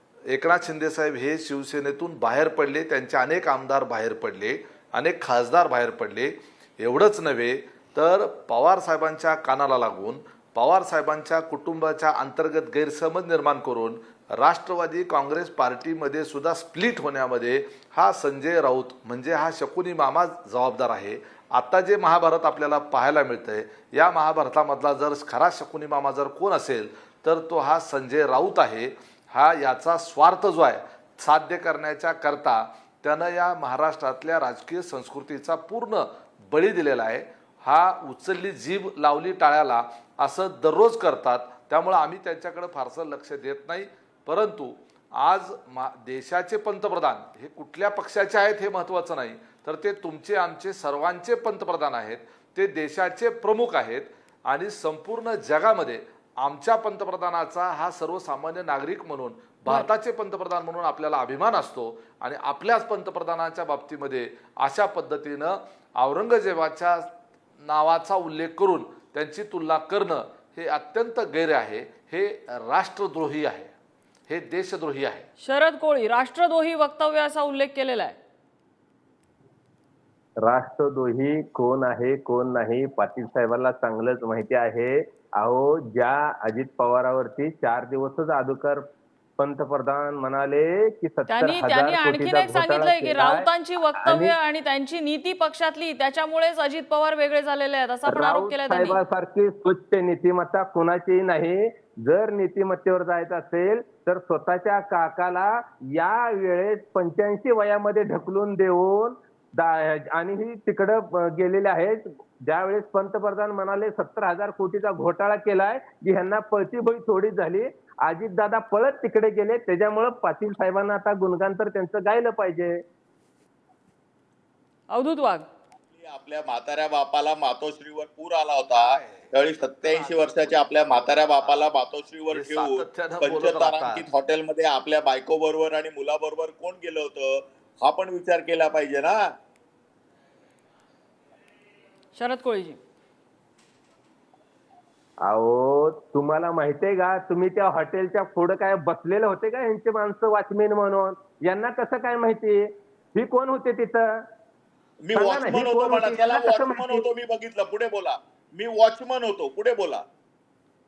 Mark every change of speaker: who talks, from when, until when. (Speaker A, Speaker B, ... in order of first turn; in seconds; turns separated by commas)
Speaker A: 0.3-73.7, Speaker A: 74.3-75.2, Speaker B: 75.4-78.2, Speaker C: 80.4-88.9, Speaker C: 89.4-93.5, Speaker B: 91.3-99.0, Speaker C: 94.0-94.3, Speaker C: 98.1-122.8, Speaker B: 124.9-125.5, Speaker D: 126.0-139.2, Speaker A: 128.7-131.7, Speaker A: 132.3-134.1, Speaker B: 142.2-142.8, Speaker C: 145.2-154.2, Speaker D: 155.1-160.0, Speaker C: 155.1-157.1